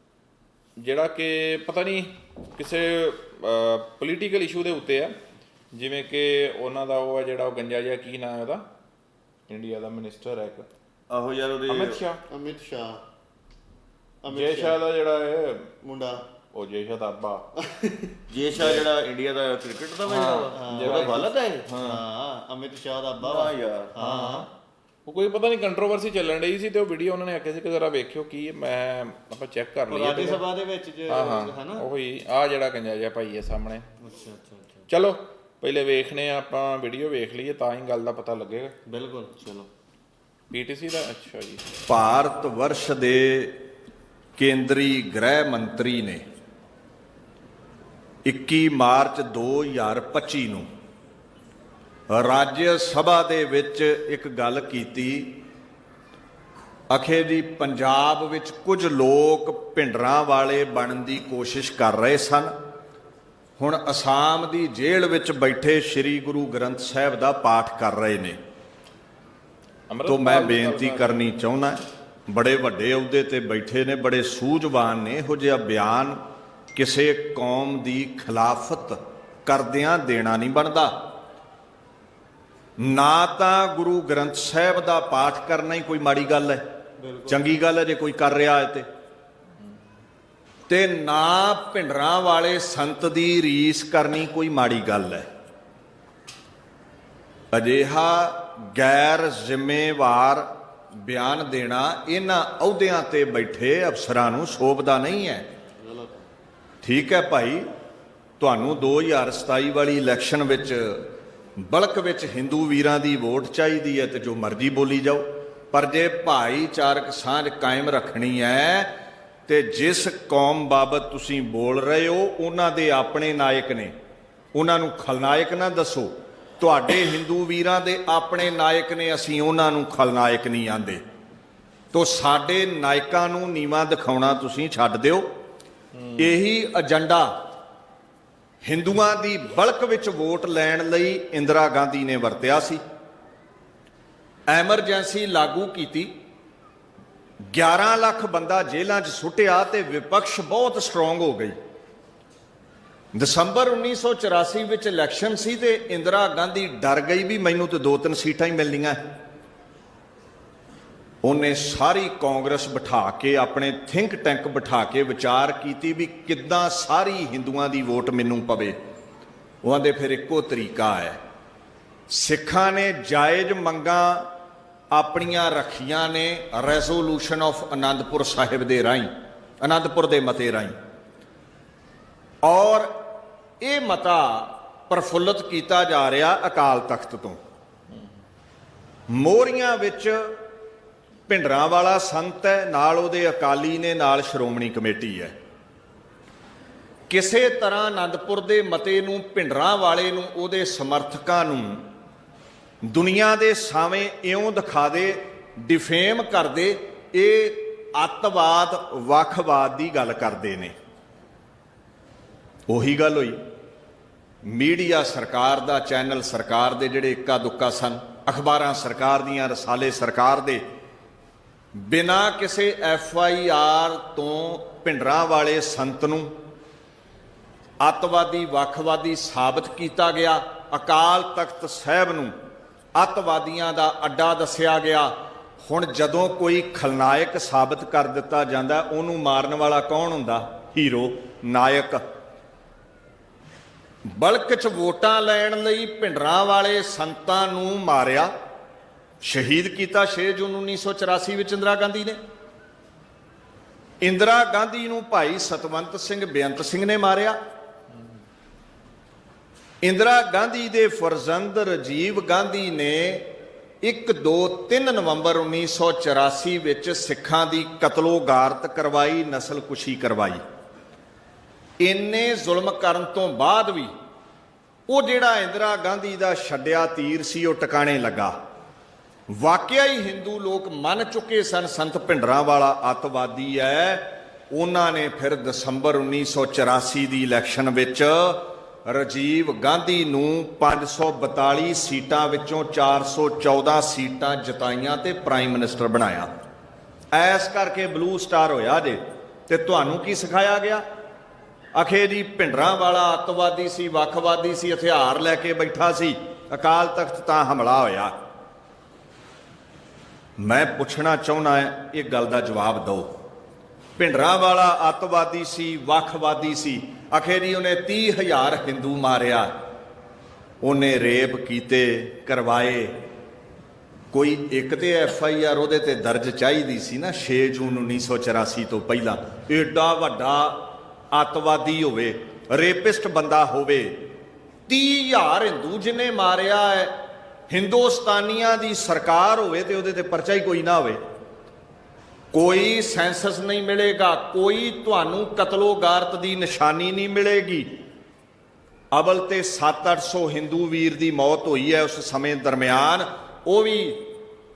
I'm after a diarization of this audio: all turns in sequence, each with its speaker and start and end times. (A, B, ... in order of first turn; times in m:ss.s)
0:00.8-0:05.2 A
0:05.7-0:08.6 A
0:09.5-0:10.7 A
0:11.1-0:12.0 B
0:11.7-0:12.2 A
0:12.3-0:13.0 C
0:14.2-0:14.8 C
0:14.3-0:15.7 A
0:15.8-0:16.2 C
0:16.5-0:17.4 A
0:17.6-0:18.1 C
0:18.3-0:22.0 B
0:18.5-0:18.9 A
0:20.0-0:21.2 A
0:20.5-0:24.5 C
0:23.2-0:24.0 B
0:24.0-0:24.5 A
0:25.0-0:30.4 A
0:29.9-0:31.8 C
0:31.1-0:33.8 A
0:34.0-0:34.9 C
0:34.9-0:38.7 A
0:38.8-0:39.7 C
0:40.5-0:41.6 A
0:41.9-0:43.5 D
0:44.4-0:46.2 D
0:48.2-0:50.7 D
0:52.1-0:55.3 D
0:56.9-1:02.5 D
1:03.6-1:08.4 D
1:09.9-1:11.2 A
1:10.0-1:16.2 D
1:16.7-1:20.9 D
1:22.8-1:26.6 D
1:27.0-1:27.4 C
1:27.3-1:28.8 D
1:30.7-1:35.3 D
1:37.5-1:45.4 D
1:45.8-1:46.3 C
1:46.8-1:47.6 D
1:48.4-1:51.0 D
1:51.6-1:58.9 D
1:59.5-2:03.9 D
2:04.5-2:11.0 D
2:11.9-2:15.2 D
2:15.9-2:16.4 A
2:16.2-2:17.3 D
2:18.6-2:22.8 D
2:24.5-2:26.1 D
2:27.5-2:31.6 D
2:33.1-2:39.0 D
2:41.2-2:48.8 D
2:49.6-2:51.2 D
2:52.1-2:54.3 D
2:54.9-2:59.1 D
2:59.6-3:00.7 D
3:02.4-3:02.9 D
3:03.6-3:07.4 D
3:09.1-3:10.3 D
3:11.3-3:15.3 D
3:17.1-3:21.8 D
3:22.8-3:30.7 D
3:32.7-3:33.4 D
3:34.4-3:40.6 D
3:41.8-3:46.3 D
3:47.8-3:52.3 D
3:52.9-4:02.0 D
4:04.0-4:08.3 D
4:09.2-4:12.2 D
4:14.0-4:17.4 D
4:19.8-4:23.3 D
4:23.8-4:30.4 D
4:31.8-4:33.9 D
4:34.9-4:38.3 D
4:39.3-4:56.3 D
4:57.1-5:00.8 D
5:01.7-5:08.1 D
5:10.4-5:13.1 D
5:14.0-5:19.5 D
5:20.6-5:22.9 D
5:24.1-5:30.6 D
5:31.1-5:33.9 D
5:34.7-5:36.9 D
5:37.5-5:41.0 D
5:42.3-5:47.6 D
5:48.9-5:54.0 D